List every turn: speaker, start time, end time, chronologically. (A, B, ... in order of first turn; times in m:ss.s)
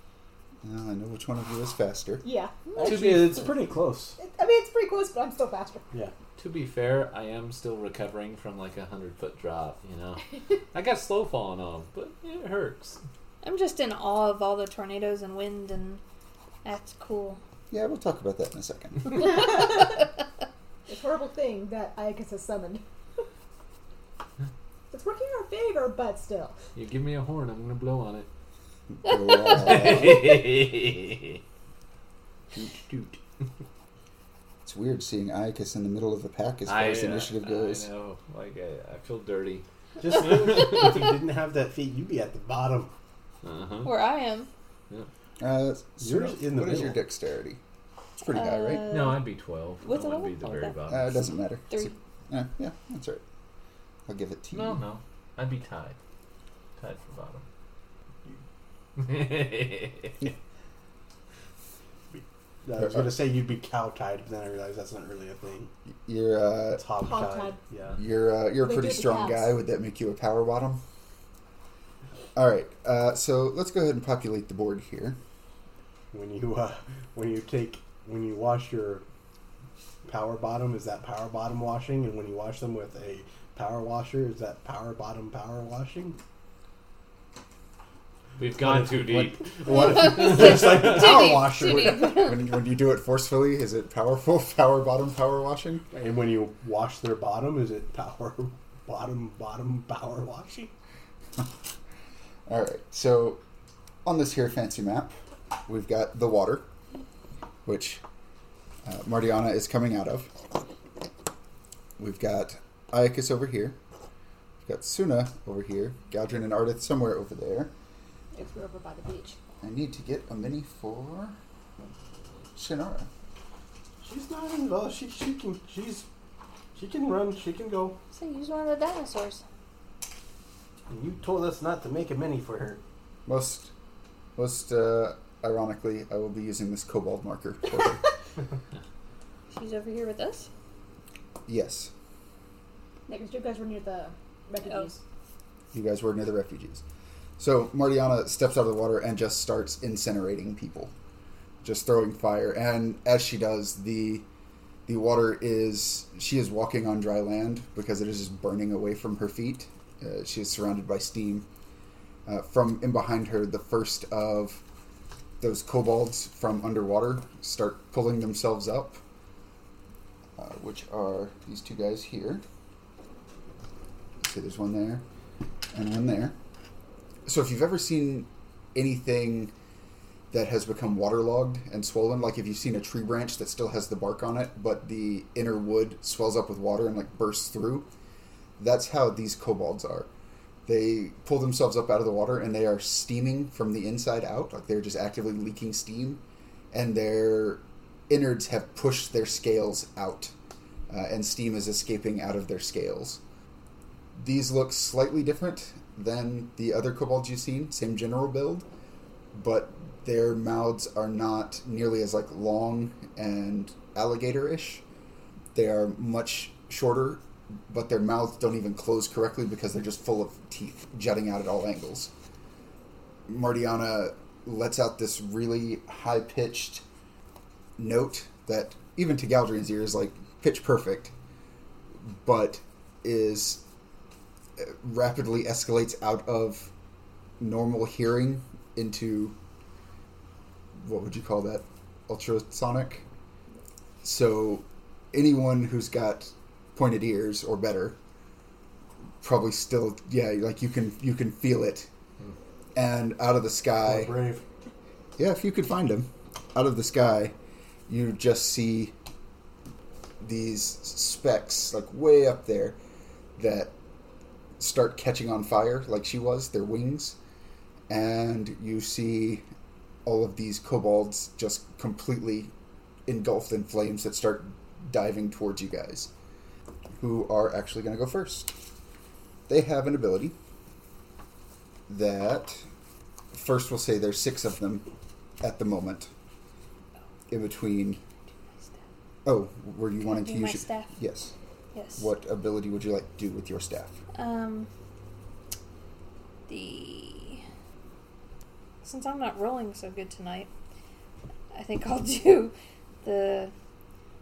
0:00.6-0:02.2 A
0:02.2-0:02.6 B
0:02.8-0:04.2 C
0:02.8-0:03.5 D
0:04.2-0:05.9 B
0:06.4-0:13.0 D
0:13.4-0:16.0 E
0:16.6-0:17.4 E
0:17.7-0:19.4 A
0:19.1-0:19.9 B
0:20.9-0:23.2 B
0:24.9-0:26.6 B
0:26.8-0:28.3 D
0:28.9-0:30.2 A
0:29.5-0:31.4 D
0:32.6-0:33.1 C
0:34.6-0:37.9 A
0:36.7-0:39.6 D
0:40.0-0:42.9 C
0:43.4-0:43.9 D
0:43.8-0:44.5 E
0:45.4-0:47.6 A
0:46.0-0:47.0 C
0:48.2-0:49.0 A
0:48.3-0:49.3 E
0:48.9-0:51.3 D
0:49.8-0:50.8 E
0:50.9-0:53.2 A
0:51.7-0:51.9 E
0:54.1-0:54.8 A
0:54.5-0:56.0 D
0:56.8-0:57.4 D
0:59.0-1:00.3 D
1:02.1-1:05.7 C
1:02.8-1:03.2 A
1:06.1-1:06.8 A
1:06.8-1:08.0 C
1:07.0-1:07.6 B
1:08.0-1:10.8 A
1:08.6-1:09.6 B
1:12.4-1:15.2 A
1:16.1-1:19.0 C
1:20.0-1:26.2 C
1:28.4-1:31.2 D
1:28.6-1:32.3 C
1:29.8-1:32.4 E
1:30.9-1:35.8 A
1:35.9-1:40.7 C
1:42.5-1:43.4 A
1:44.0-1:45.1 A
1:45.7-1:46.7 A
1:47.7-1:48.0 A
1:48.8-1:50.3 A
1:52.0-1:53.8 A
1:54.6-1:57.7 A
1:58.3-1:59.4 B
1:59.6-2:01.4 A
2:02.6-2:03.1 A
2:04.0-2:06.1 C
2:06.8-2:08.0 C
2:08.1-2:09.4 E
2:10.9-2:12.8 C
2:13.3-2:13.7 A
2:14.4-2:18.0 A
2:19.5-2:20.5 E
2:21.5-2:21.9 A
2:23.1-2:25.0 B
2:25.7-2:26.8 A
2:27.4-2:30.9 A
2:31.6-2:34.2 A
2:34.9-2:41.5 A
2:42.3-2:44.6 A
2:45.4-2:49.0 A
2:50.4-2:52.4 A
2:54.2-2:55.0 A
2:55.7-2:56.4 A
2:57.3-2:59.5 A
3:00.3-3:07.9 A
3:08.6-3:10.1 A
3:10.7-3:20.3 A
3:20.9-3:23.2 A
3:24.2-3:28.7 A
3:29.3-3:34.8 A
3:35.5-3:42.1 A
3:43.3-3:46.8 A
3:47.8-3:51.1 A
3:52.0-3:53.6 A
3:54.6-3:56.7 A
3:57.4-3:59.4 A
4:00.8-4:03.0 A
4:04.0-4:08.0 A
4:09.2-4:11.9 A
4:12.8-4:14.2 A
4:13.8-4:14.4 C
4:15.2-4:17.4 A
4:17.9-4:19.0 A
4:20.2-4:22.8 A
4:23.4-4:23.7 A
4:24.6-4:27.2 A
4:27.9-4:29.4 A
4:30.0-4:32.5 A
4:33.1-4:36.1 A
4:37.0-4:38.5 A
4:39.5-4:40.4 A
4:41.9-4:42.7 A
4:43.3-4:44.9 A
4:45.4-4:46.1 A
4:47.3-4:48.0 A
4:49.2-4:51.3 A
4:50.0-4:51.0 E
4:51.7-4:52.1 E
4:52.0-4:54.0 A
4:54.1-4:54.7 E
4:56.5-4:57.4 E
4:58.8-5:00.5 E
5:01.5-5:03.5 E